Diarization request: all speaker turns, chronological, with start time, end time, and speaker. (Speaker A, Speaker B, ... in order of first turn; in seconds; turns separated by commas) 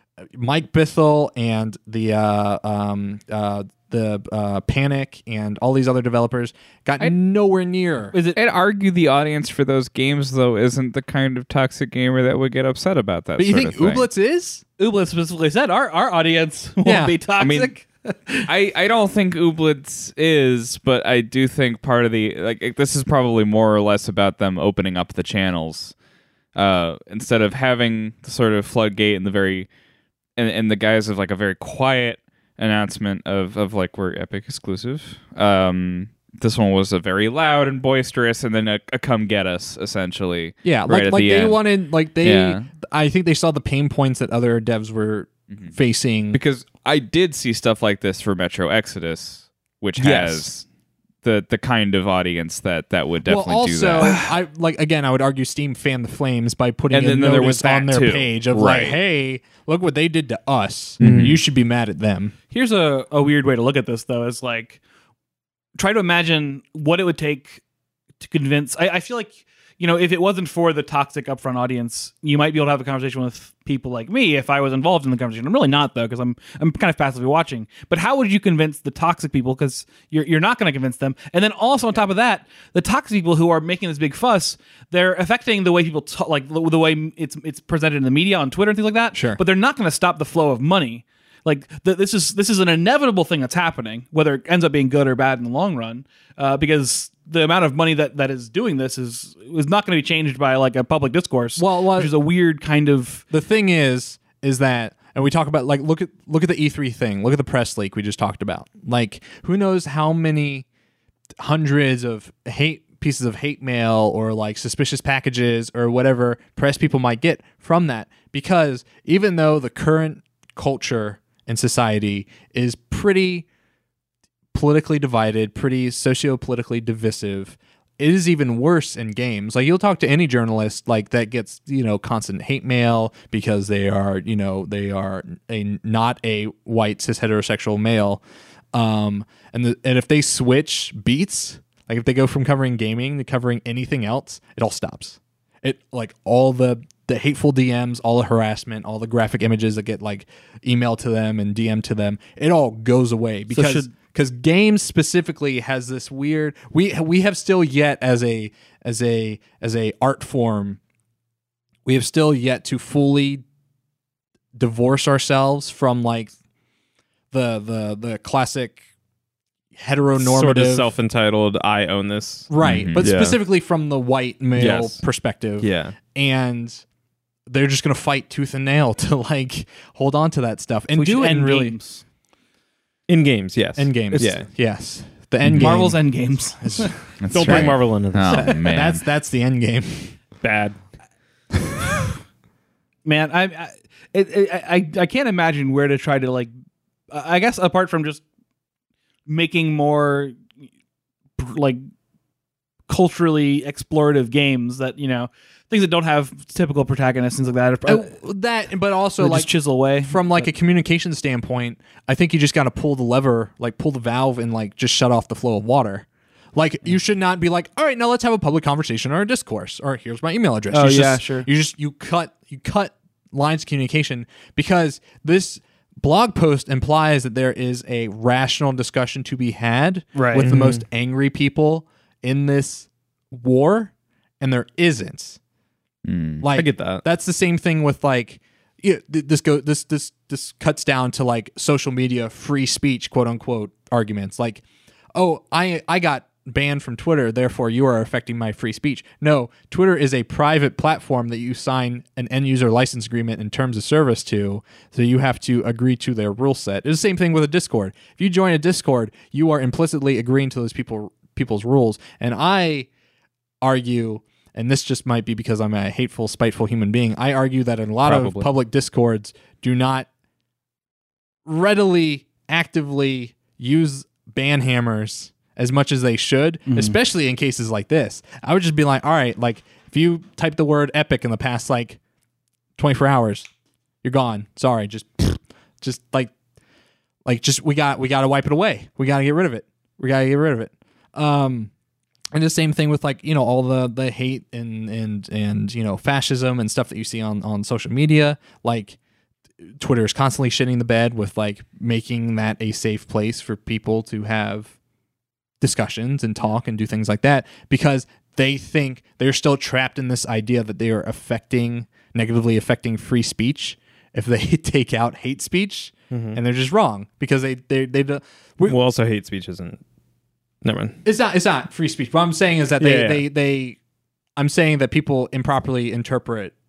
Speaker A: 0.3-8.2, Speaker B: 8.1-8.4, Speaker C: 8.3-14.1, Speaker A: 13.4-14.6, Speaker B: 14.8-18.5, Speaker A: 16.8-17.2, Speaker C: 17.4-17.7, Speaker C: 18.5-25.9, Speaker C: 26.6-29.7, Speaker C: 30.4-41.6, Speaker A: 40.6-46.4, Speaker C: 42.2-42.7, Speaker C: 46.3-50.6, Speaker D: 50.0-50.6, Speaker C: 51.2-54.2, Speaker A: 53.3-62.3, Speaker C: 56.9-59.0, Speaker D: 61.0-61.4, Speaker C: 61.0-61.4, Speaker B: 62.5-64.8, Speaker B: 65.8-67.6, Speaker B: 68.2-103.2, Speaker A: 89.2-89.4, Speaker A: 101.6-102.1, Speaker A: 103.3-110.7, Speaker A: 111.4-123.5, Speaker A: 124.5-138.2, Speaker A: 138.7-160.8, Speaker B: 153.5-153.9, Speaker A: 161.9-163.4, Speaker A: 164.6-166.3, Speaker A: 167.3-168.8, Speaker A: 169.8-170.9, Speaker D: 170.2-173.4, Speaker A: 172.5-176.8, Speaker C: 172.6-173.1, Speaker D: 174.6-175.0, Speaker D: 175.6-176.0, Speaker A: 177.5-181.8, Speaker B: 180.9-182.0, Speaker D: 183.1-184.5, Speaker A: 183.8-186.0, Speaker B: 185.5-187.0, Speaker A: 186.6-187.7, Speaker C: 187.2-189.1, Speaker D: 187.3-188.5, Speaker A: 188.5-190.2, Speaker D: 190.4-190.8, Speaker B: 193.1-196.5, Speaker B: 197.1-198.2, Speaker B: 199.3-200.5, Speaker B: 201.4-201.8, Speaker B: 202.9-208.2, Speaker A: 207.9-209.5, Speaker B: 209.2-210.5, Speaker A: 210.0-235.4, Speaker B: 220.7-221.5, Speaker B: 230.2-230.5, Speaker D: 230.4-230.8, Speaker C: 236.1-236.4, Speaker A: 236.4-244.6, Speaker D: 236.5-237.0, Speaker A: 245.2-262.9, Speaker A: 263.6-270.1, Speaker D: 268.0-268.5, Speaker A: 271.5-282.0, Speaker B: 276.7-277.0, Speaker A: 282.8-283.5, Speaker A: 284.0-286.3, Speaker A: 287.2-291.7, Speaker A: 292.3-299.0, Speaker A: 299.8-304.7, Speaker A: 305.6-318.8, Speaker D: 316.1-316.4, Speaker D: 318.7-319.8, Speaker D: 320.6-321.0, Speaker A: 321.1-323.8, Speaker D: 322.8-323.3, Speaker A: 324.4-326.5